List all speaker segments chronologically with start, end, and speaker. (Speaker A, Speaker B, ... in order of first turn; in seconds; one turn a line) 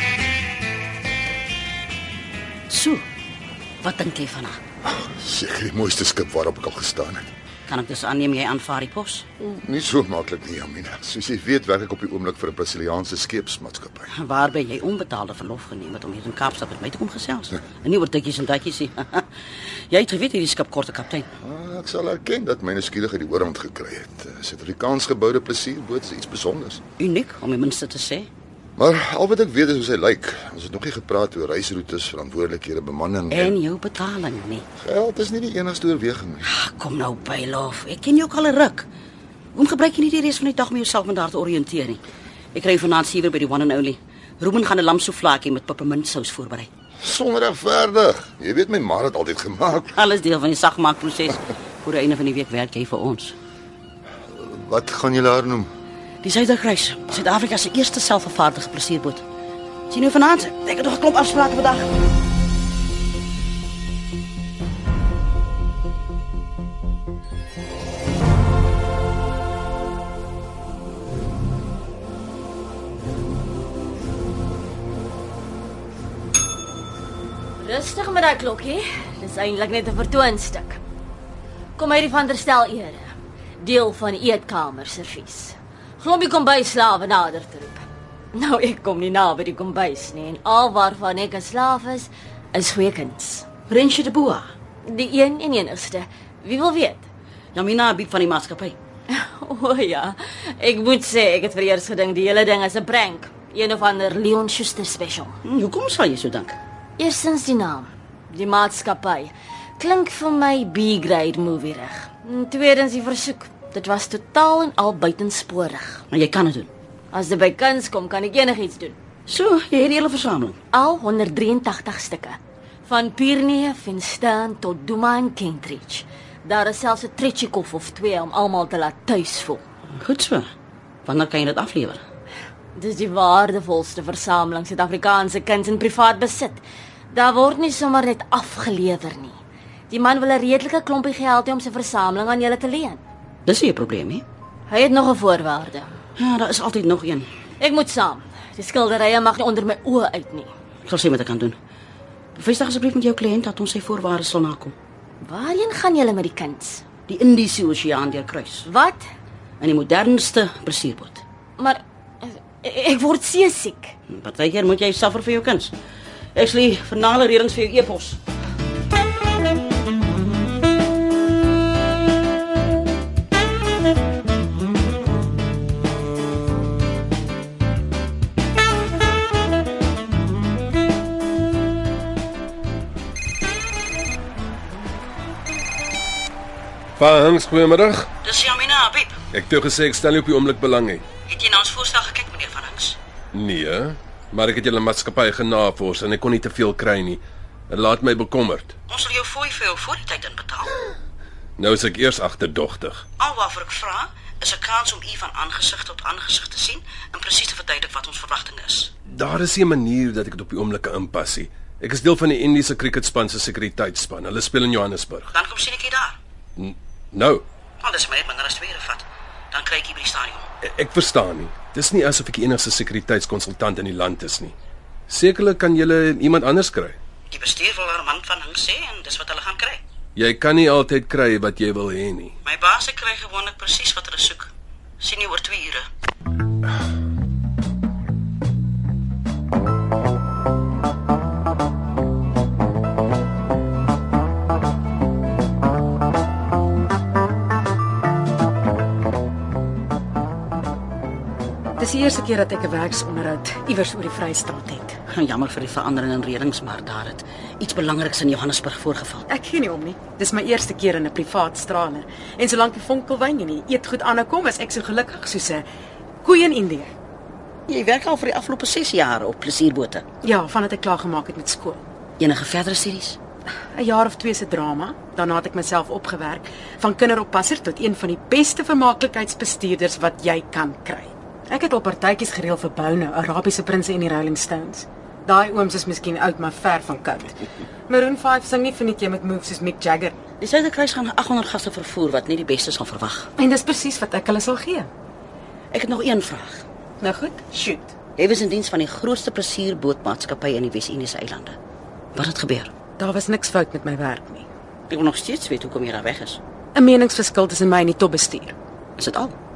Speaker A: 2.7-3.0
Speaker A: 3.8-4.6
Speaker B: 4.9-7.3
Speaker A: 7.7-9.3
Speaker B: 9.4-14.1
Speaker A: 14.1-19.2
Speaker A: 19.9-21.3
Speaker B: 21.4-26.8
Speaker A: 27.0-28.3
Speaker B: 28.8-33.6
Speaker A: 33.3-34.6
Speaker B: 34.8-36.5
Speaker A: 36.5-38.9
Speaker A: 39.5-42.0
Speaker A: 42.5-46.7
Speaker B: 47.0-49.9
Speaker A: 49.9-53.4
Speaker B: 54.3-55.7
Speaker A: 56.2-59.2
Speaker A: 59.9-61.9
Speaker C: 77.6-80.8
Speaker C: 81.8-83.1
Speaker C: 83.6-87.8
Speaker C: 88.3-93.5
Speaker A: 93.7-94.5
Speaker C: 94.9-97.1
Speaker A: 97.5-98.8
Speaker C: 99.1-105.4
Speaker A: 105.4-106.6
Speaker C: 107.0-116.0
Speaker A: 116.1-116.7
Speaker C: 117.1-119.0
Speaker A: 119.3-120.6
Speaker C: 120.7-129.6
Speaker A: 130.0-130.5
Speaker A: 131.1-132.0
Speaker C: 132.8-139.4
Speaker C: 139.9-143.0
Speaker A: 143.5-144.2
Speaker C: 144.7-145.9
Speaker A: 146.2-147.3
Speaker C: 147.6-150.5
Speaker A: 150.9-151.6
Speaker A: 152.4-154.8
Speaker C: 155.2-156.9
Speaker A: 157.1-158.7
Speaker C: 158.7-159.0
Speaker A: 159.6-161.2
Speaker C: 161.6-163.9
Speaker A: 164.1-165.8
Speaker A: 166.3-168.2
Speaker D: 187.0-188.1
Speaker A: 188.2-189.2
Speaker D: 189.3-191.0
Speaker A: 191.3-193.0
Speaker D: 193.3-198.7
Speaker A: 198.9-200.7
Speaker D: 201.6-203.0
Speaker A: 203.2-208.9
Speaker D: 209.1-215.3
Speaker A: 215.3-216.2
Speaker D: 216.6-217.4
Speaker A: 217.8-220.4
Speaker D: 220.6-224.6
Speaker D: 225.1-227.0
Speaker A: 227.3-229.8
Speaker D: 230.2-232.3
Speaker A: 232.4-235.9
Speaker E: 251.8-255.0
Speaker A: 255.1-259.3
Speaker E: 259.3-265.7
Speaker E: 266.2-266.9
Speaker A: 267.7-270.0
Speaker E: 270.2-271.8
Speaker A: 272.2-273.2
Speaker E: 273.7-290.2
Speaker A: 290.4-293.3
Speaker E: 293.4-294.9
Speaker A: 295.7-296.6
Speaker E: 297.0-297.9
Speaker A: 298.2-301.6
Speaker A: 302.1-302.7
Speaker E: 303.0-304.5
Speaker A: 304.9-306.4
Speaker E: 306.7-308.6
Speaker A: 309.0-309.4